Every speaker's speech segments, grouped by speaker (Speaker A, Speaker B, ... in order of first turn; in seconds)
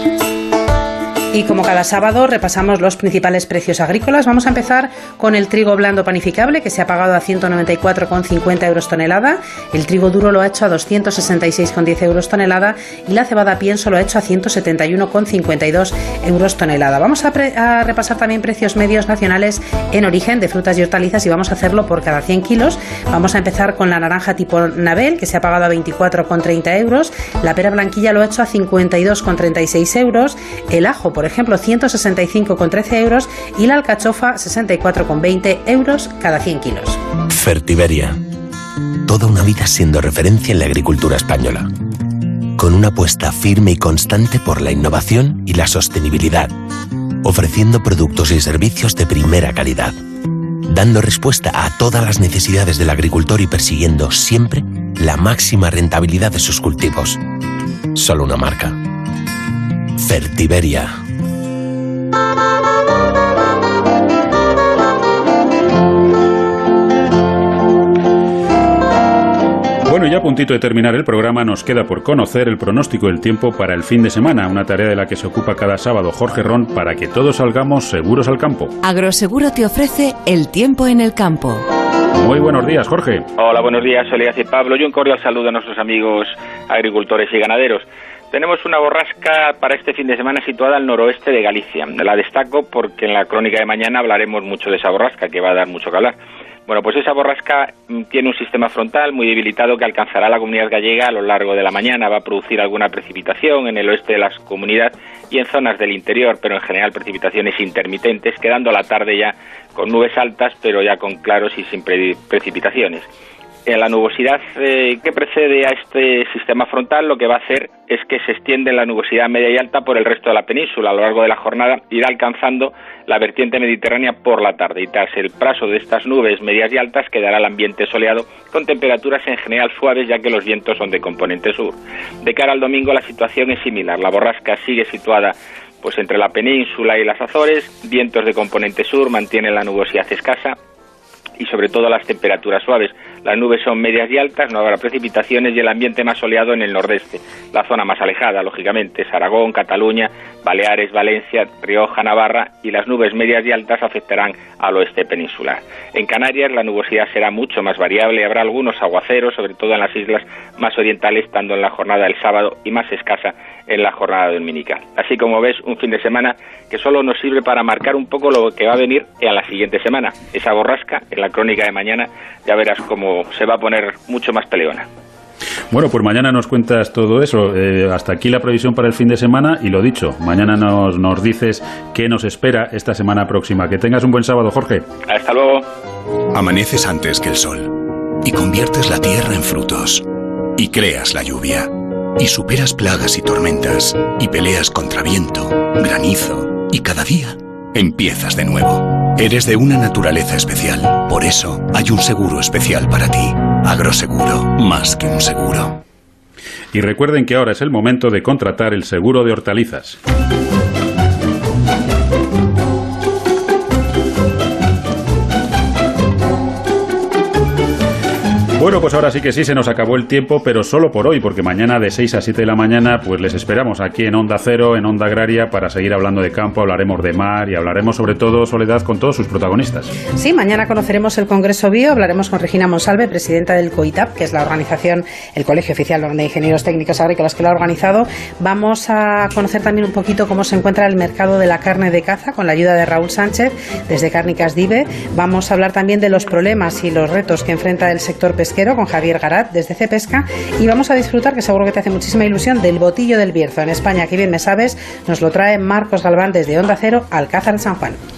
Speaker A: 1.3-37.0, 230.2-258.0
Speaker B: 37.3-38.2, 39.0-41.7, 42.5-46.5, 47.2-49.9, 50.7-57.2, 57.9-58.8, 60.0-61.0
Speaker C: 69.8-78.7, 82.2-83.3, 175.7-184.8, 206.7-210.0, 218.6-229.9
Speaker D: 78.8-81.7
Speaker E: 83.4-113.1, 113.7-140.6, 141.4-174.9, 185.1-185.7
Speaker F: 186.3-190.1, 190.6-205.8